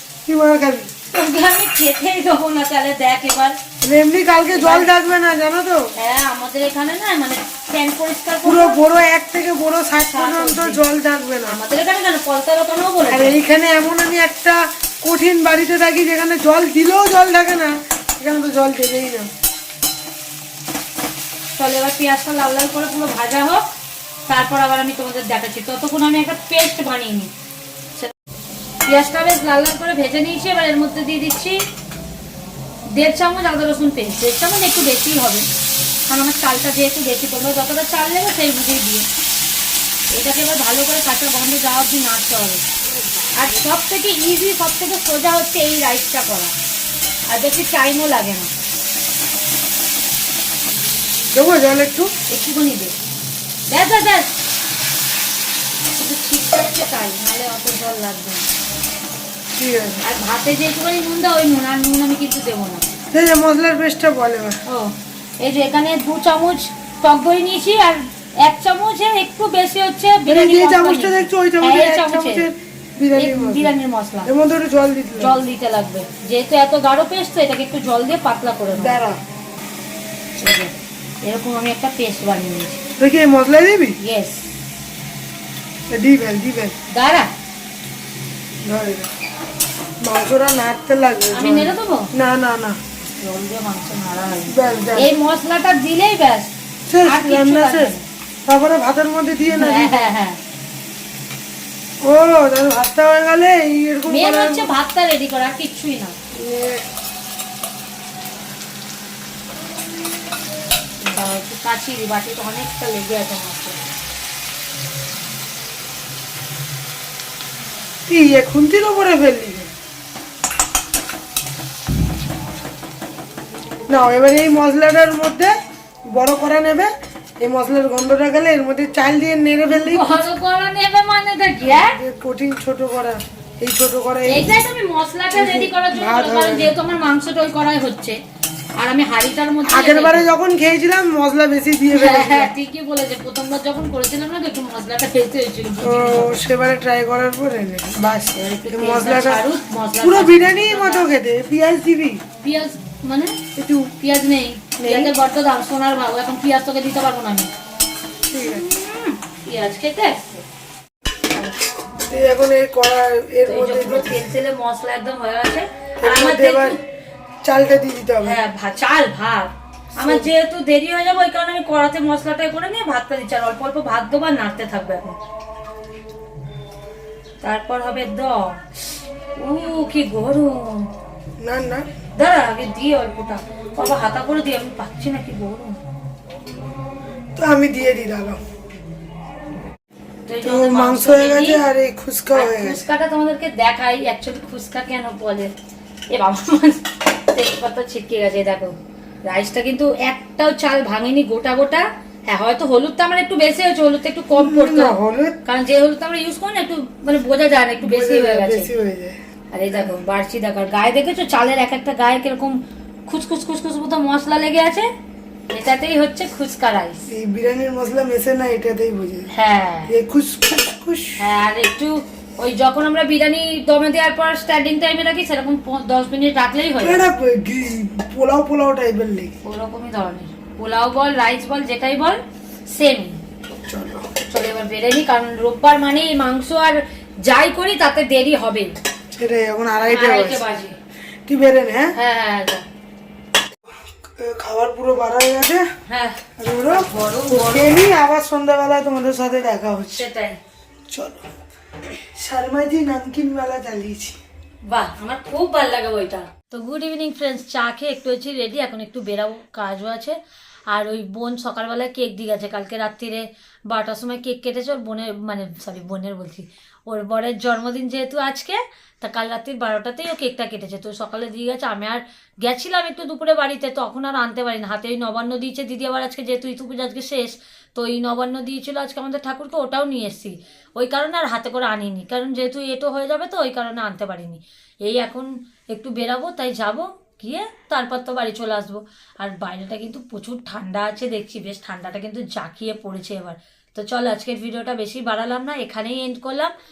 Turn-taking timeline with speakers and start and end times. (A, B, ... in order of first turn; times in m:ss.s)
0:00.2-0:00.9 A
0:01.1-0:03.6 B
0:03.8-0:05.9 A
0:04.5-0:04.9 B
0:06.0-0:08.8 B
0:08.4-0:11.6 A
0:10.1-0:10.8 B
0:11.4-0:13.4 B
0:13.1-0:19.3 A
0:21.5-0:23.6 B
0:24.2-0:27.3 B
0:28.8-0:31.6 B
0:32.9-0:35.5 B
0:36.1-0:39.1 B
0:40.1-0:42.6 B
0:43.3-0:46.5 B
0:47.3-0:48.5 B
0:51.3-0:52.1 A
0:52.3-0:52.9 B
0:53.7-0:54.4 B
0:55.9-0:58.5 B
0:59.6-1:00.0 A
1:00.0-1:02.8 B
1:03.1-1:04.6 A
1:04.6-1:12.5 B
1:10.2-1:15.4 A
1:13.2-1:14.3 B
1:15.2-1:19.0 B
1:18.8-1:19.2 A
1:20.4-1:22.8 B
1:23.0-1:24.0 A
1:24.0-1:24.4 B
1:25.9-1:26.8 A
1:26.9-1:27.3 B
1:28.6-1:29.1 A
1:30.0-1:32.8 A
1:31.3-1:32.1 B
1:33.1-1:36.5 B
1:34.5-1:35.1 A
1:36.9-1:37.9 A
1:37.0-1:38.1 B
1:38.4-1:40.1 A
1:39.5-1:40.4 B
1:42.0-1:44.7 A
1:44.1-1:46.2 B
1:46.3-1:46.8 A
1:51.0-1:53.8 B
1:58.1-1:59.7 A
2:03.9-2:05.5 A
2:06.1-2:10.2 A
2:09.7-2:12.0 B
2:11.6-2:14.5 A
2:14.2-2:18.2 B
2:15.3-2:16.8 A
2:18.8-2:20.4 B
2:19.7-2:22.5 A
2:21.9-2:26.4 B
2:25.8-2:29.4 A
2:28.3-2:31.1 B
2:30.0-2:32.2 A
2:32.4-2:37.5 B
2:34.8-2:35.1 A
2:38.3-2:38.6 A
2:38.4-2:40.4 B
2:42.1-2:44.2 A
2:43.5-2:46.8 B
2:46.0-2:46.8 A
2:47.4-2:48.4 A
2:48.2-2:55.2 B
2:50.0-2:50.3 A
2:57.4-2:58.6 B
2:59.4-3:00.9 B
3:01.4-3:01.9 A
3:02.2-3:05.8 B
3:07.4-3:08.4 A
3:10.2-3:11.6 B
3:10.4-3:12.8 A
3:12.3-3:15.5 B
3:16.1-3:28.7 B
3:24.3-3:25.4 A
3:27.8-3:29.2 A
3:29.5-3:34.9 B
3:35.5-3:37.1 B
3:37.1-3:39.3 A
3:39.3-3:39.9 B
3:39.9-3:41.2 A
3:41.2-3:47.1 B
3:46.8-3:49.3 A
3:49.4-3:53.2 B
3:53.7-3:54.1 A
3:54.2-3:58.7 B
3:59.1-4:00.4 A
3:59.9-4:00.8 B
4:01.3-4:01.9 A
4:02.0-4:02.7 B
4:04.0-4:05.7 A
4:05.9-4:07.8 B
4:06.4-4:10.0 A
4:09.9-4:10.4 B
4:10.9-4:11.2 A
4:12.1-4:14.2 A
4:14.7-4:20.2 B
4:20.7-4:56.5 B